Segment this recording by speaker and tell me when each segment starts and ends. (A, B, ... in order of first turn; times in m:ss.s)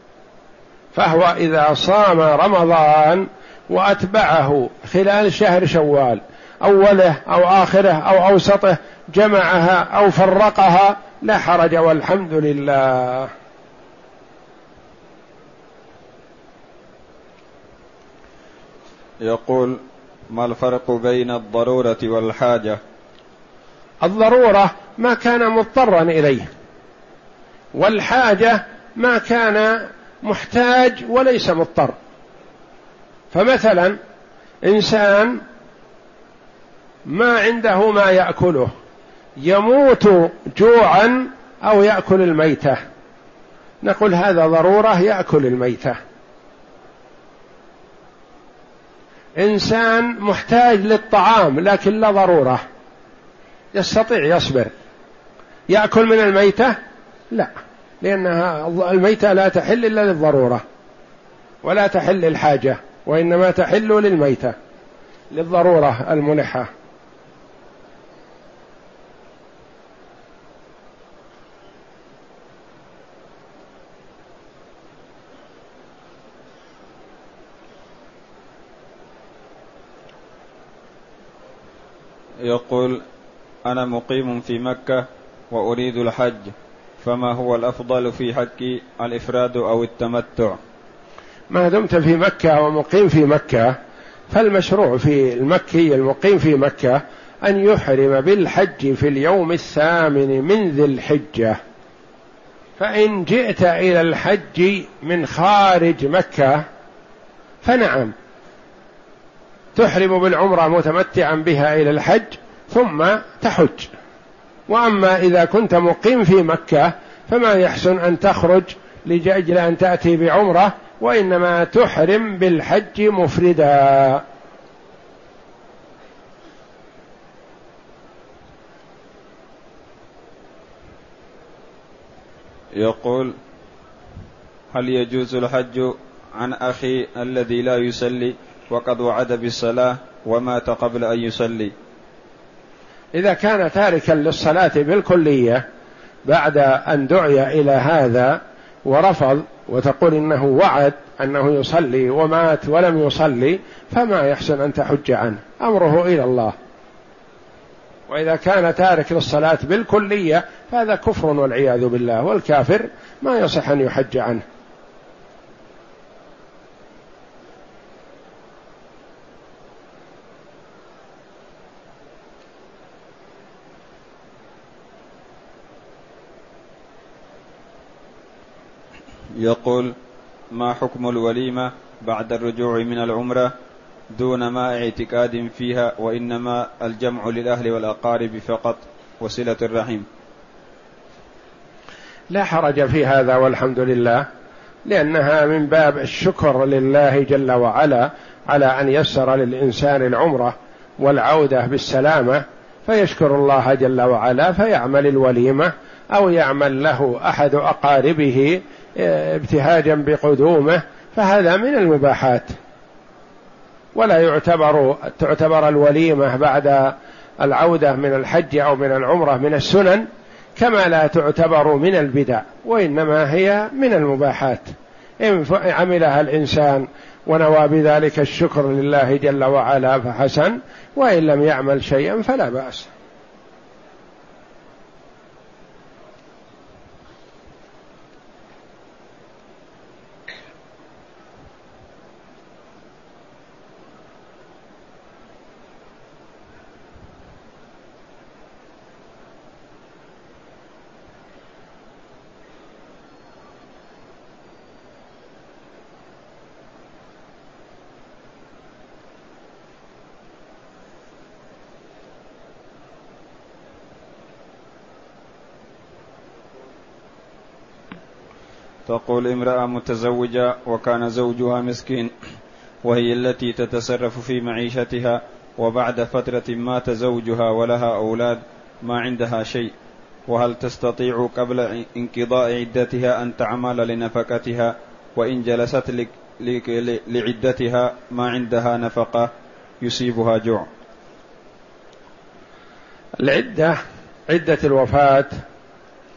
0:00.9-0:13.3 A
0:19.2-0:22.8 B
0:24.0-0:26.5 A
0:27.8-0:31.9 A
0:33.3-0:34.0 A
0:34.6-0:35.4 A
0:37.0-0:38.7 A
0:39.4-0:42.8 A
0:43.8-0:46.0 A
0:49.4-0:52.6 A
0:53.7-0:54.7 A
0:55.7-0:56.8 A
0:57.3-1:00.6 A
1:01.6-1:04.5 A
1:05.3-1:06.7 A
1:22.4-1:23.0 B
1:23.6-1:30.6 B
1:31.5-1:33.7 A
1:34.3-1:41.6 A
1:42.8-1:46.6 A
1:47.6-1:48.1 A
1:49.7-1:53.9 A
1:54.7-2:04.2 A
2:12.8-2:13.3 B
2:14.7-2:21.7 B
2:23.1-2:25.6 A
2:26.2-2:36.5 A
2:38.1-2:44.4 A
2:59.4-2:59.9 B
3:00.5-3:03.5 B
3:04.1-3:10.0 B
3:12.3-3:14.3 A
3:14.8-3:32.5 A
3:33.9-3:52.9 A
4:28.8-4:32.1 B
4:32.8-4:39.7 B
4:40.3-4:49.3 B
4:49.8-4:50.7 B
4:53.2-4:53.8 A
4:54.3-4:55.3 A